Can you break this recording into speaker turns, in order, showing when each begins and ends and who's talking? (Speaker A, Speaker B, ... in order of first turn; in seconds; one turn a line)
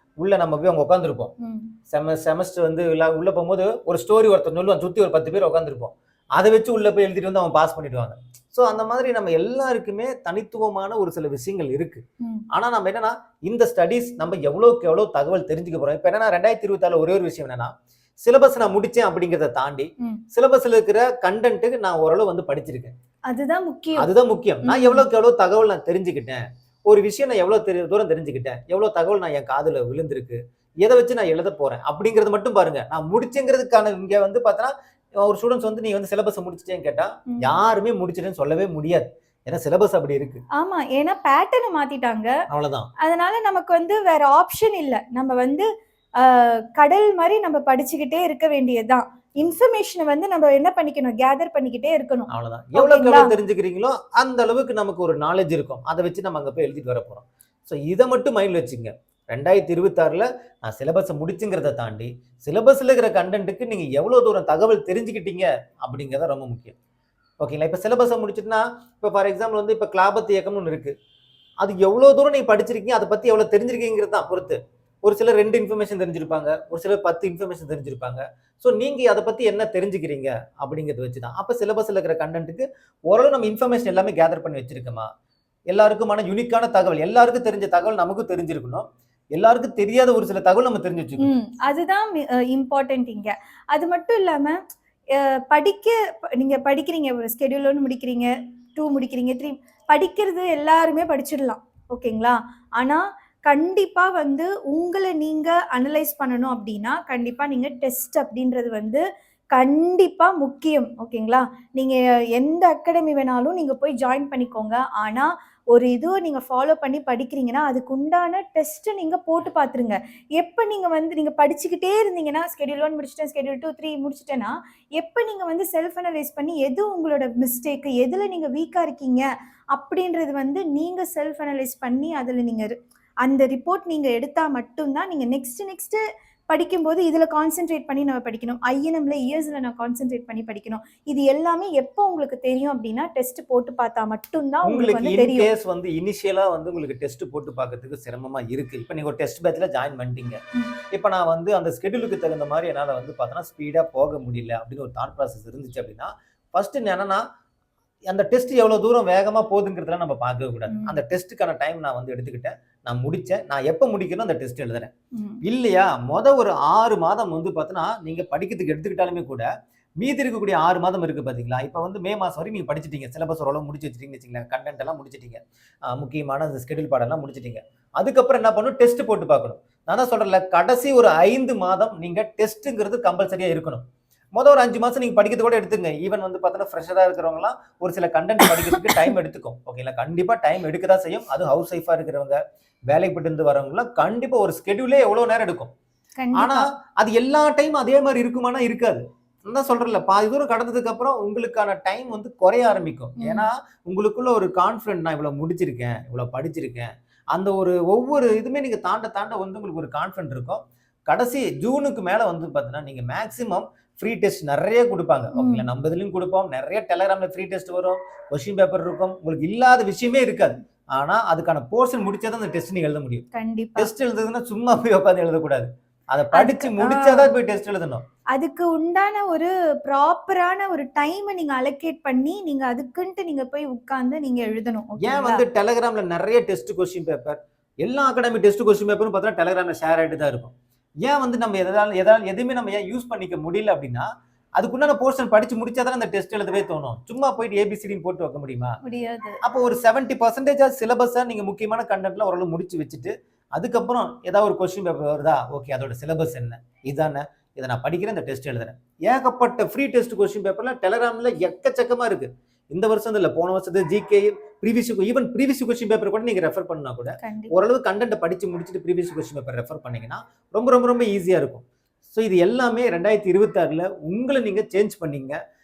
Speaker A: 0.2-1.3
Speaker B: 1.4-1.7
Speaker A: 1.9-17.7
Speaker A: 18.2-22.9
Speaker B: 23.3-24.1
Speaker A: 24.0-40.4
Speaker B: 24.6-25.1
Speaker B: 40.5-42.4
Speaker A: 42.5-42.9
Speaker B: 43.0-45.7
Speaker B: 46.2-53.3
Speaker A: 52.3-66.7
Speaker A: 67.4-70.9
Speaker A: 71.6-85.1
Speaker A: 85.7-91.3
Speaker B: 91.2-94.6
Speaker B: 95.1-145.5
Speaker A: 144.7-150.4
Speaker A: 150.9-157.2
Speaker A: 158.1-164.9
Speaker B: 160.7-161.0
Speaker B: 165.1-165.4
Speaker A: 165.4-169.5
Speaker A: 170.0-183.8
Speaker A: 184.3-195.7
Speaker B: 188.4-189.1
Speaker B: 196.2-196.7
Speaker A: 196.4-223.2
Speaker B: 203.2-203.5
Speaker B: 215.3-215.7
Speaker B: 223.3-223.9
Speaker A: 223.8-228.0
Speaker B: 226.3-227.3
Speaker B: 228.3-235.4
Speaker A: 235.0-248.8
Speaker B: 248.8-249.4
Speaker A: 249.4-275.4
Speaker B: 267.2-267.5